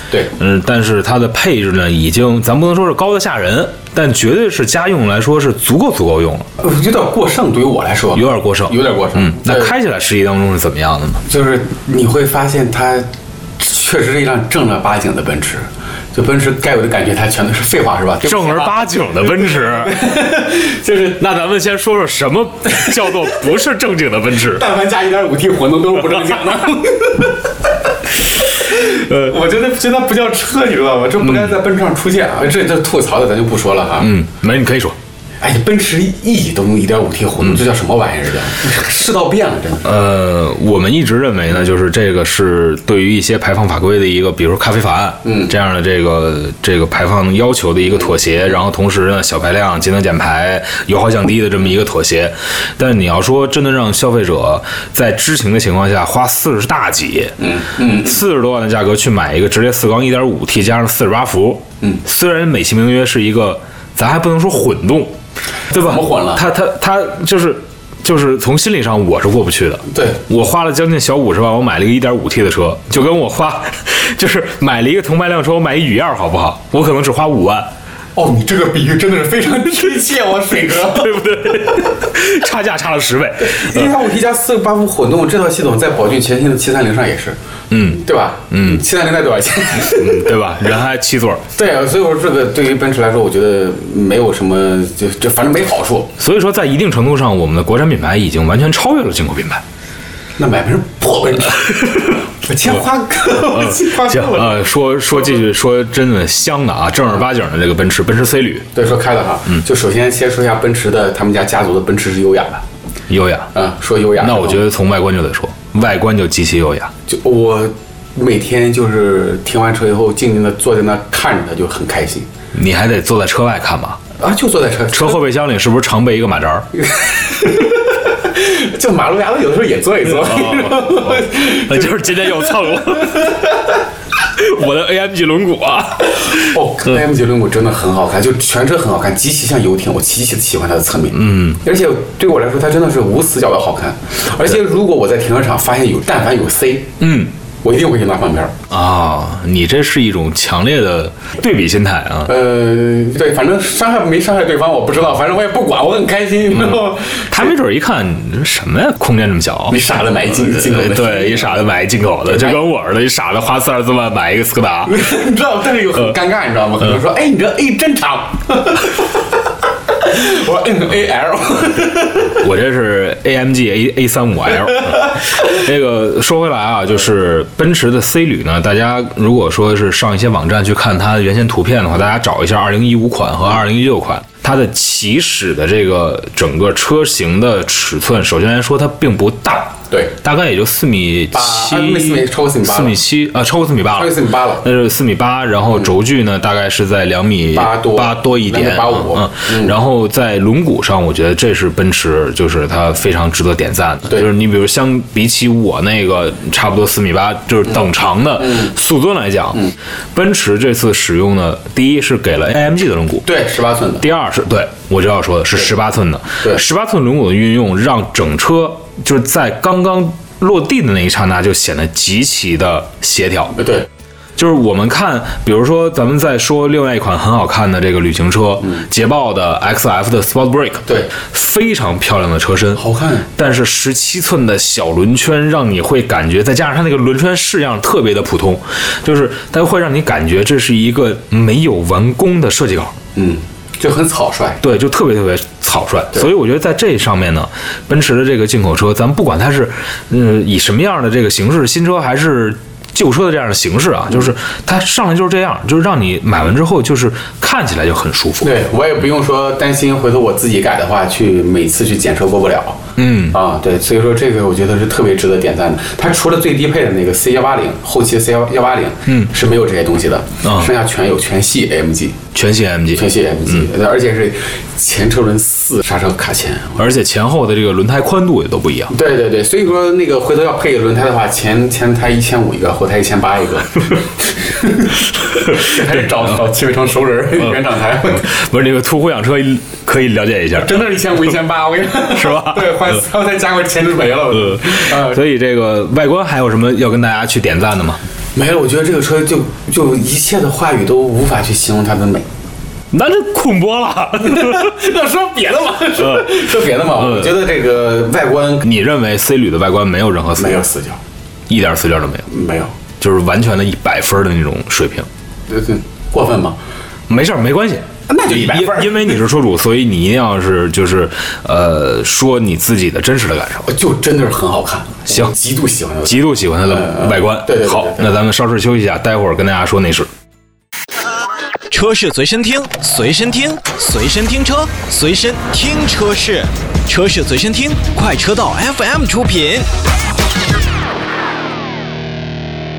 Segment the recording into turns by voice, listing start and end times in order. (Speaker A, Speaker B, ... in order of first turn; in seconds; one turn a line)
Speaker A: 0.3-6.5
Speaker B: 6.6-9.7
Speaker A: 8.2-11.2
Speaker B: 11.2-21.2
Speaker A: 18.2-20.0
Speaker A: 21.2-24.6
Speaker B: 22.7-23.3
Speaker B: 24.4-27.5
Speaker A: 26.1-26.4
Speaker B: 28.3-34.1
Speaker A: 28.7-29.4
Speaker A: 31.2-31.6
Speaker A: 34.0-35.0
Speaker B: 35.4-39.9
Speaker A: 39.8-57.4
Speaker B: 45.2-45.5
Speaker B: 57.4-58.2
Speaker A: 57.9-65.2
Speaker B: 65.7-66.5
Speaker A: 65.7-77.7
Speaker B: 69.9-70.2
Speaker B: 78.2-81.6
Speaker A: 80.8-83.9
Speaker B: 83.4-90.4
Speaker A: 87.7-88.8
Speaker A: 89.8-91.4
Speaker B: 91.5-96.1
Speaker A: 96.2-99.6
Speaker B: 100.4-105.4
Speaker A: 103.5-108.7
Speaker B: 108.8-112.6
Speaker A: 113.1-113.5
Speaker B: 113.5-114.6
Speaker A: 114.2-116.9
Speaker B: 117.1-122.3
Speaker A: 122.5-124.0
Speaker B: 124.2-125.2
Speaker A: 124.9-126.7
Speaker B: 126.8-133.4
Speaker A: 130.1-133.6
Speaker A: 134.2-137.0
Speaker B: 136.2-147.0
Speaker A: 141.1-141.6
Speaker A: 147.0-147.3
Speaker B: 147.6-148.6
Speaker A: 148.7-152.3
Speaker B: 152.3-157.5
Speaker A: 156.6-165.0
Speaker B: 159.7-161.6
Speaker B: 162.3-162.6
Speaker B: 164.9-169.2
Speaker B: 169.9-172.4
Speaker A: 172.3-213.3
Speaker B: 174.9-175.3
Speaker B: 189.9-190.2
Speaker B: 191.3-193.0
Speaker B: 193.9-194.7
Speaker B: 197.5-199.8
Speaker B: 208.4-208.7
Speaker B: 213.2-214.1
Speaker A: 214.0-223.6
Speaker B: 223.6-223.9
Speaker A: 224.4-232.8
Speaker B: 230.9-231.1
Speaker B: 232.8-233.3
Speaker A: 233.4-243.0
Speaker B: 243.2-244.6
Speaker A: 244.6-258.5
Speaker B: 258.4-272.2
Speaker A: 263.0-263.4
Speaker A: 270.4-270.7
Speaker A: 272.3-273.7
Speaker B: 272.9-276.8
Speaker A: 276.8-278.9
Speaker B: 278.9-288.3
Speaker A: 285.6-286.0
Speaker A: 288.2-290.9
Speaker B: 290.6-295.2
Speaker A: 292.1-293.0
Speaker A: 294.3-298.0
Speaker B: 298.4-302.3
Speaker A: 302.9-304.8
Speaker B: 304.2-308.7
Speaker A: 306.0-307.4
Speaker A: 308.6-310.6
Speaker B: 310.4-311.0
Speaker A: 311.5-312.3
Speaker B: 312.3-312.8
Speaker A: 313.0-315.1
Speaker B: 315.5-316.6
Speaker A: 317.1-323.7
Speaker B: 318.1-319.2
Speaker B: 323.7-328.1
Speaker A: 325.1-325.3
Speaker A: 326.1-330.1
Speaker C: 331.7-339.7